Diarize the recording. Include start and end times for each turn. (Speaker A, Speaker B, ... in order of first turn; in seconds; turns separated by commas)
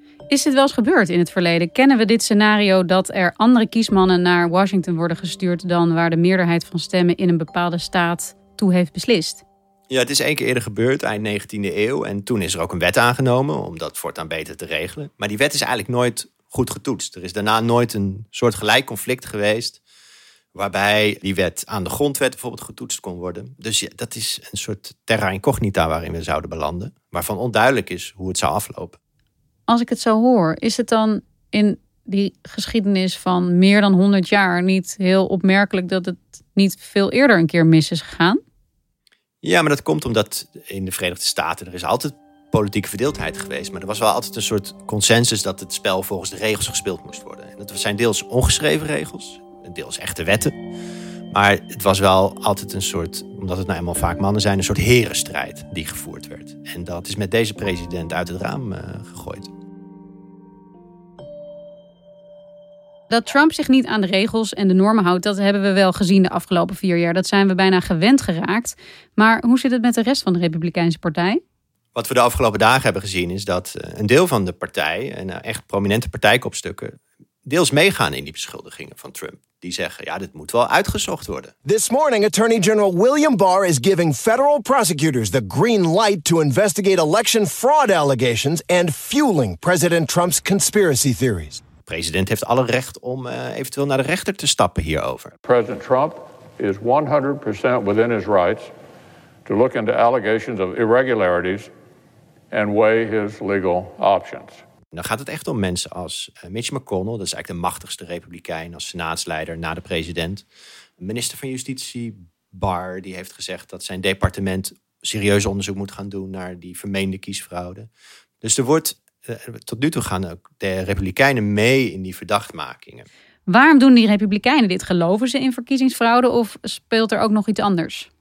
Speaker A: 0.3-9.4, Speaker B: 9.9-19.8, Speaker B: 20.6-29.0, Speaker A: 29.7-38.4, Speaker B: 39.4-50.5, Speaker B: 51.3-59.5, Speaker A: 63.1-71.4, Speaker B: 72.0-81.5, Speaker C: 81.7-91.6, Speaker B: 91.9-95.3, Speaker D: 95.5-98.7, Speaker D: 99.5-101.7, Speaker D: 102.5-104.6, Speaker B: 104.9-110.5, Speaker B: 111.0-117.9, Speaker B: 118.4-123.1, Speaker A: 123.5-128.1